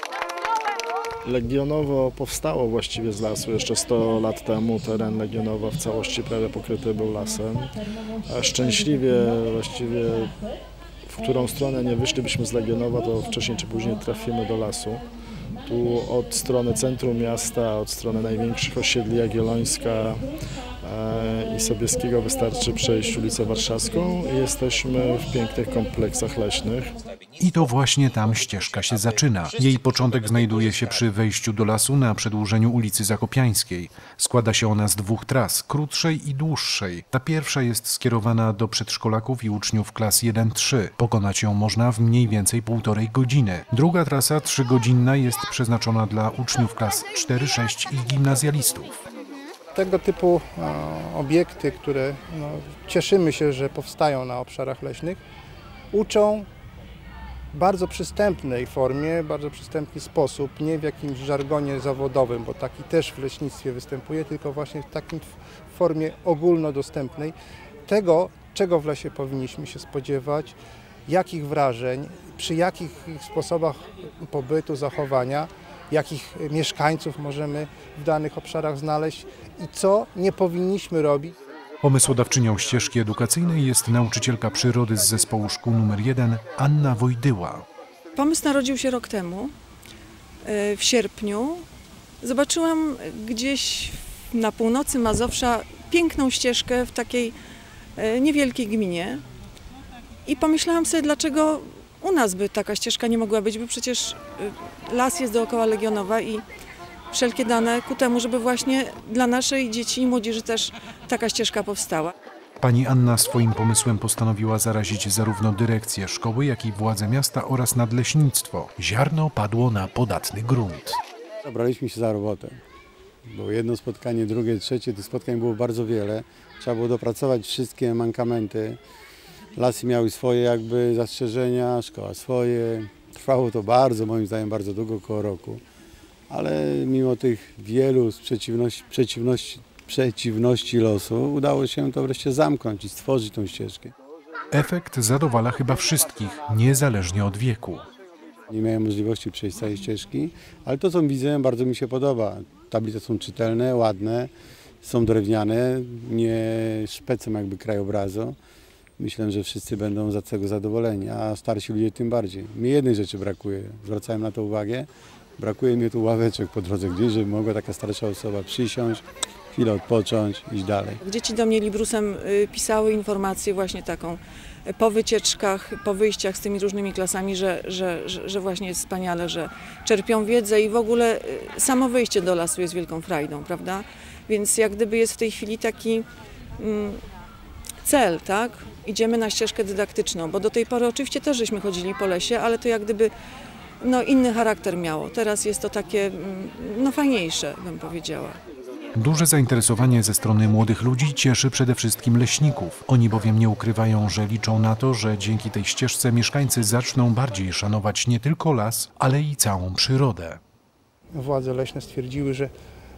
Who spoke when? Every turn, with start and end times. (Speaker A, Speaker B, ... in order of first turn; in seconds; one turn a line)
Speaker A: 1.2-10.4
Speaker A: 11.0-15.0
Speaker A: 15.6-27.0
Speaker B: 27.4-49.0
Speaker C: 49.7-55.2
Speaker C: 55.9-56.5
Speaker C: 57.5-67.3
Speaker C: 67.9-70.5
Speaker C: 71.1-81.3
Speaker B: 81.8-87.6
Speaker D: 88.2-89.5
Speaker D: 90.4-91.6
Speaker D: 92.2-97.3
Speaker D: 98.0-99.2
Speaker D: 100.2-106.4
Speaker D: 107.1-112.1
Speaker B: 112.6-121.0
Speaker E: 121.4-122.6
Speaker E: 123.3-128.8
Speaker E: 129.6-135.6
Speaker E: 136.3-143.9
Speaker B: 144.5-147.8
Speaker E: 148.5-154.3
Speaker E: 154.8-158.4
Speaker E: 159.0-171.0
Speaker D: 171.0-186.1
Speaker D: 186.6-187.0
Speaker D: 187.8-193.1
Speaker D: 193.8-198.4
Speaker B: 198.9-210.4
Speaker C: 211.1-212.5